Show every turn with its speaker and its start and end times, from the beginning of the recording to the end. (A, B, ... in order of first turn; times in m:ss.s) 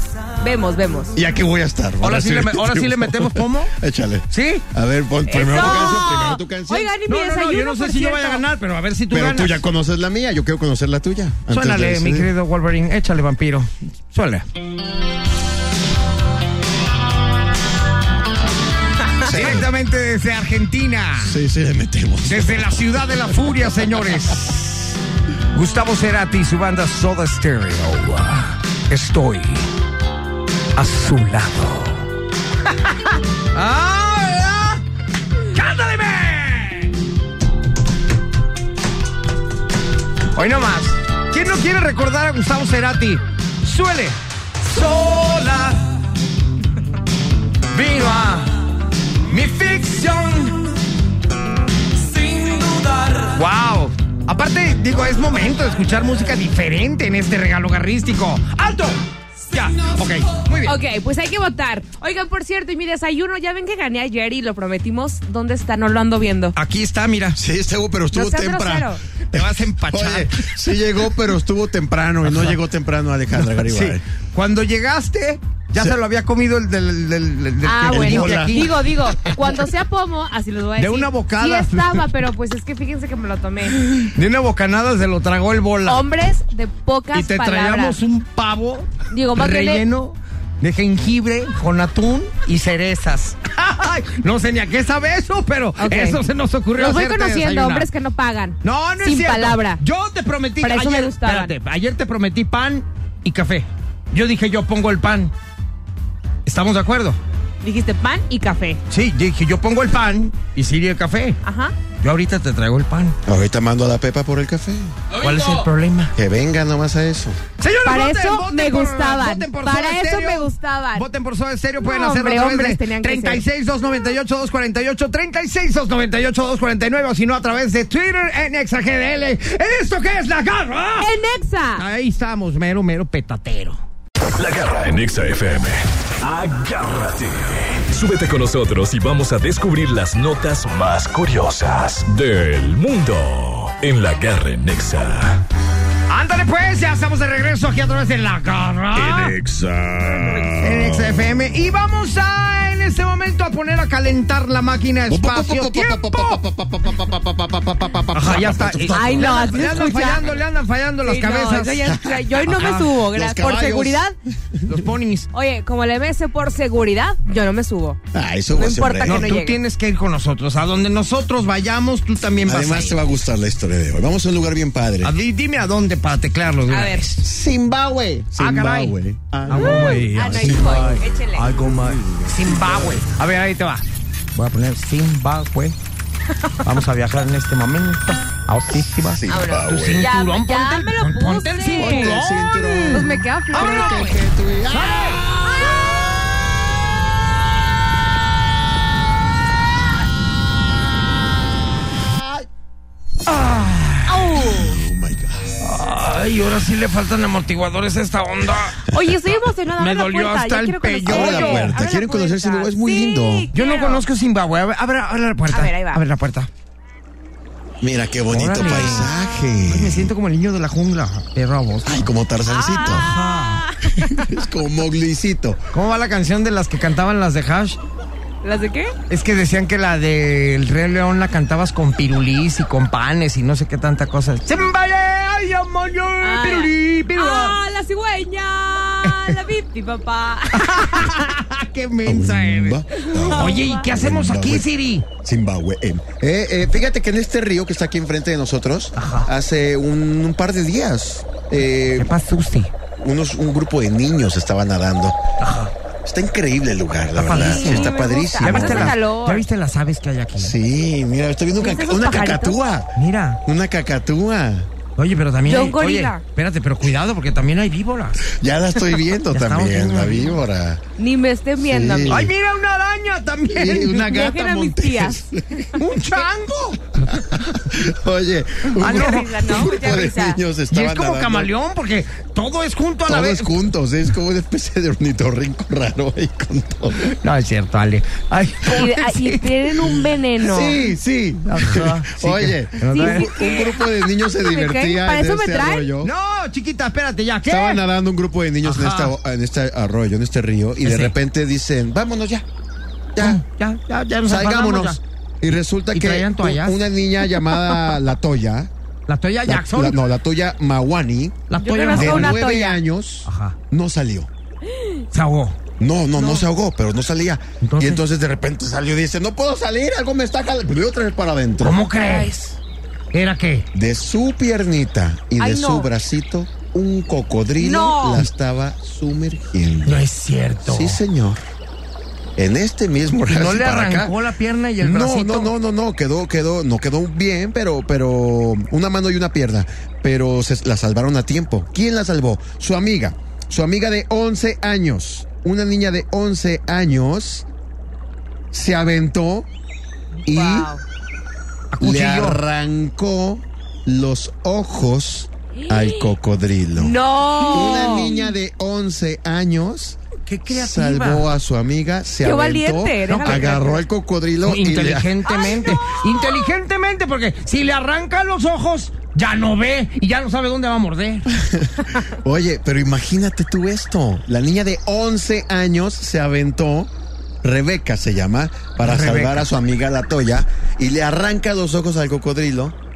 0:00.4-0:01.1 A
0:01.1-0:06.9 B
0:02.0-0:03.7 C
0:04.3-0:04.6 C
0:05.3-0:08.4 A
0:05.4-0:06.1 C
0:07.1-0:09.6 C
0:09.1-0:12.3 B
0:11.5-0:14.4 C
0:19.2-0:21.4 C
0:19.2-0:19.7 B
0:21.2-0:23.5 B
0:22.2-0:25.0 C
0:25.5-0:29.7 C
0:30.7-0:32.0 C
0:33.5-0:34.8 C
0:35.5-0:36.9 C
0:40.3-0:45.9 C
0:47.7-0:48.6 C
0:49.3-0:50.7 C
0:52.2-1:00.8 C
1:00.6-1:06.5 A
1:06.6-1:07.4 C
1:07.4-1:14.0 B
1:08.1-1:09.0 A
1:09.3-1:10.5 C
1:12.3-1:12.6 C
1:13.3-1:18.7 C
1:17.6-1:23.8 A
1:17.9-1:19.6 B
1:20.8-1:22.0 C
1:23.7-1:26.0 C
1:25.9-1:28.0 A
1:27.1-1:37.9 C
1:29.1-1:29.8 A
1:35.8-1:36.2 A
1:36.8-1:39.8 A
1:38.6-1:45.3 C
1:40.6-1:41.5 A
1:46.4-1:47.2 C
1:47.6-1:48.8 A
1:48.9-1:51.4 C
1:51.4-1:51.7 A
1:52.0-1:53.2 C
1:53.2-1:55.0 B
1:55.1-1:56.1 C
1:56.1-1:57.4 B
1:57.6-2:11.1 C
1:57.8-2:01.0 A
2:01.8-2:03.4 A
2:11.0-2:11.8 A
2:11.8-2:13.8 C
2:14.3-2:25.4 D
2:26.1-2:29.4 C
2:28.9-2:31.2 B
2:30.6-2:36.4 C
2:35.1-2:39.9 B
2:38.1-2:41.8 C
2:38.9-2:40.2 A
2:41.0-2:44.1 A
2:41.8-2:42.3 B
2:42.4-2:43.0 C
2:43.1-2:44.8 B
2:44.6-2:45.3 C
2:45.3-2:48.0 A
2:48.1-2:49.3 B
2:48.5-2:49.6 A
2:49.0-2:53.0 C
2:52.4-2:55.1 B
2:55.0-2:57.2 C
2:56.7-2:57.0 A
2:57.2-3:03.0 B
2:58.4-2:58.9 C
2:59.5-3:03.8 C
2:59.5-3:01.5 A
3:04.4-3:05.8 C
3:06.6-3:15.3 C
3:08.8-3:10.1 B
3:09.3-3:12.1 A
3:11.8-3:15.4 B
3:12.9-3:14.1 A
3:15.4-3:16.0 A
3:22.2-3:22.4 B
3:23.3-3:24.2 C
3:24.1-3:24.8 A
3:24.4-3:25.5 B
3:25.6-3:28.9 C
3:28.9-3:34.1 A
3:29.8-3:31.8 C
3:31.0-3:33.5 B
3:33.5-3:36.5 C
3:35.5-3:36.0 A
3:37.8-3:40.1 B
3:38.3-3:39.1 C
3:39.6-3:42.1 C
3:41.8-3:43.1 B
3:42.5-3:44.2 A
3:42.9-3:43.7 C
3:44.0-3:45.6 B
3:45.7-3:47.8 C
3:48.4-3:48.9 A
3:49.1-3:57.6 C
3:56.2-4:01.2 A
3:59.0-3:59.4 C
4:00.6-4:05.1 C
4:02.0-4:04.6 B
4:02.9-4:03.8 A
4:05.2-4:12.1 B
4:09.0-4:09.3 C
4:11.9-4:12.7 C
4:13.0-4:15.2 B
4:15.4-4:15.7 C
4:16.0-4:19.0 B
4:17.2-4:20.5 C
4:17.3-4:19.4 A
4:20.4-4:22.9 B
4:21.6-4:22.6 A
4:23.0-4:23.4 C
4:23.4-4:24.7 B
4:25.0-4:28.3 C
4:25.4-4:26.2 A
4:28.3-4:30.8 B
4:29.3-4:30.4 C
4:31.0-4:32.2 A
4:31.6-4:32.3 B
4:32.1-4:34.2 C
4:33.5-4:35.8 B
4:34.0-4:35.2 A
4:35.8-4:36.9 C
4:37.1-4:41.5 B
4:38.7-4:39.8 C
4:38.8-4:40.4 A
4:40.7-4:43.5 C
4:43.1-4:47.1 B
4:47.0-4:49.5 C
4:48.6-4:50.8 A
4:50.4-4:56.1 B
4:51.5-4:53.3 C
4:52.9-4:55.9 A
4:56.0-4:57.8 C
4:57.5-5:02.4 B
4:58.6-4:59.1 C
5:00.8-5:01.1 C
5:03.1-5:03.4 B
5:03.2-5:05.0 C
5:04.2-5:08.7 B
5:05.9-5:06.8 C
5:09.1-5:10.0 C
5:09.4-5:11.4 B
5:11.5-5:12.4 C
5:11.6-5:12.8 A
5:11.9-5:14.3 B
5:13.2-5:13.6 C
5:15.1-5:15.6 C
5:15.8-5:21.8 B
5:16.1-5:16.4 A
5:17.6-5:18.0 C
5:21.6-5:22.6 C
5:22.0-5:22.3 A
5:23.1-5:23.6 C
5:23.7-5:30.1 B
5:25.4-5:25.9 A
5:27.6-5:28.2 A
5:29.8-5:31.0 C
5:30.6-5:31.4 B
5:32.4-5:34.1 B
5:33.3-5:35.5 C
5:34.8-5:47.4 B
5:48.5-5:49.5 B
5:50.2-5:50.8 A
5:50.2-5:50.7 B
5:51.7-5:52.4 C
5:51.8-5:56.9 B
5:55.6-5:56.1 A
5:56.7-5:58.2 A
5:57.5-6:05.1 B
6:00.3-6:01.3 C
6:02.2-6:03.8 A
6:03.1-6:03.6 C
6:04.4-6:11.3 C
6:05.3-6:06.2 A
6:11.3-6:16.9 B
6:17.4-6:22.8 B
6:18.8-6:19.5 C